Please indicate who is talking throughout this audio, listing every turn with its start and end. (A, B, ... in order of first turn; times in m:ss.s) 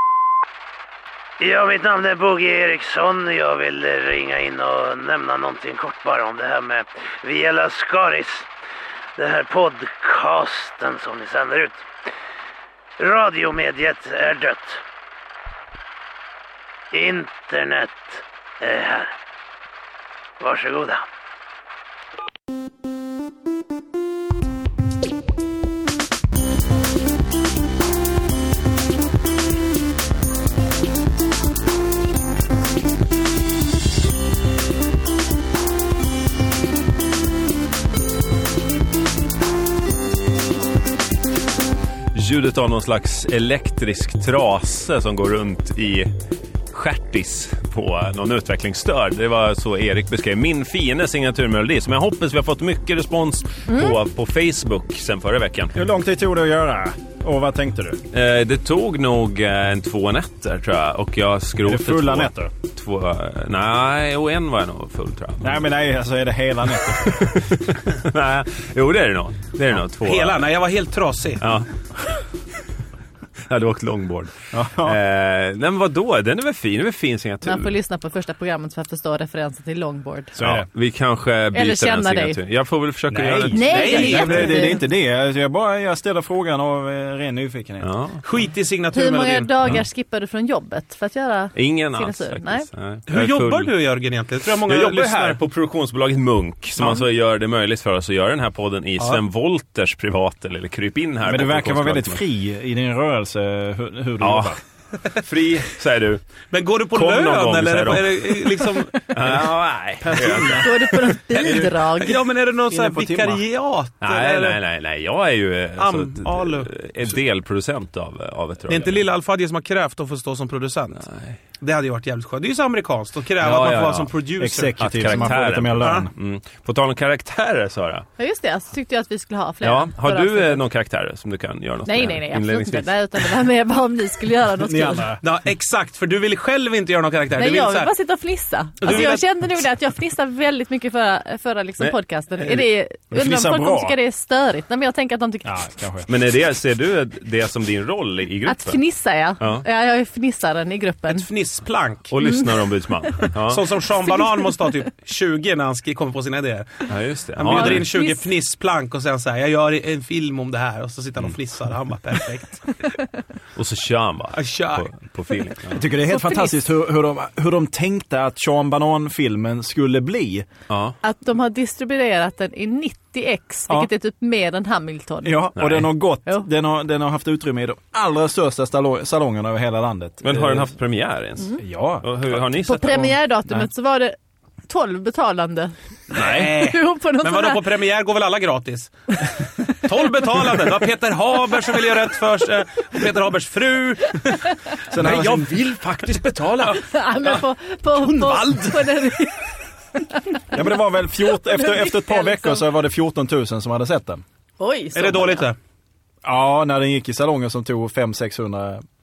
0:01.4-0:08.5 A
0:09.2-0:11.8 A
0:13.0-0:14.8 A
0:16.9-0:19.1 A
0:20.4-0:21.0 A
0:42.1-0:46.1 B
0:46.7-0:55.8 B
0:53.7-0:54.0 C
0:55.8-0:58.0 D
0:58.1-1:05.6 B
1:01.6-1:02.5 D
1:05.4-1:07.4 D
1:07.0-1:10.5 B
1:10.0-1:11.4 E
1:11.4-1:11.7 B
1:13.5-1:17.7 B
1:14.5-1:15.0 D
1:17.4-1:20.3 C
1:20.4-1:24.6 B
1:20.4-1:20.7 D
1:21.5-1:22.4 C
1:23.1-1:27.9 D
1:23.5-1:24.8 C
1:23.7-1:24.7 E
1:27.8-1:28.2 B
1:28.2-1:29.5 E
1:28.9-1:32.7 C
1:31.6-1:33.7 B
1:33.1-1:35.4 E
1:34.6-1:42.2 B
1:36.8-1:37.0 E
1:41.2-1:44.6 D
1:44.2-1:44.6 B
1:45.1-1:46.2 B
1:46.5-1:49.4 E
1:46.9-1:51.2 B
1:50.0-1:51.7 D
1:50.5-1:52.3 C
1:51.5-1:54.6 E
1:52.7-1:53.4 D
1:54.0-1:59.1 B
1:55.8-1:56.7 E
1:58.7-2:06.1 E
2:01.1-2:01.4 B
2:03.4-2:04.1 B
2:04.4-2:06.1 D
2:04.8-2:08.0 B
2:08.2-2:10.6 C
2:09.6-2:13.3 B
2:11.8-2:15.2 C
2:14.6-2:15.2 D
2:15.2-2:17.9 E
2:17.4-2:25.6 C
2:18.8-2:19.3 E
2:23.1-2:24.0 D
2:25.4-2:26.1 D
2:26.1-2:28.8 B
2:28.4-2:31.2 C
2:31.1-2:32.1 E
2:32.1-2:33.8 B
2:32.2-2:32.6 C
2:33.4-2:42.6 E
2:34.0-2:34.7 C
2:36.9-2:37.9 B
2:37.5-2:38.3 C
2:43.6-2:45.8 B
2:44.3-2:44.9 E
2:45.7-2:50.5 D
2:46.1-2:46.6 C
2:50.7-2:51.0 B
2:51.0-2:55.5 C
2:55.2-3:00.7 D
2:55.6-2:55.9 B
3:00.2-3:03.1 B
3:01.6-3:02.1 D
3:02.5-3:04.2 C
3:02.9-3:03.7 D
3:04.7-3:05.7 C
3:06.1-3:06.6 B
3:06.1-3:08.9 E
3:06.3-3:07.7 C
3:09.7-3:14.5 E
3:14.9-3:15.5 D
3:15.0-3:16.9 B
3:16.6-3:17.4 E
3:16.8-3:22.6 C
3:18.0-3:19.3 E
3:20.5-3:24.2 D
3:24.6-3:25.5 C
3:24.9-3:25.6 E
3:26.2-3:28.8 D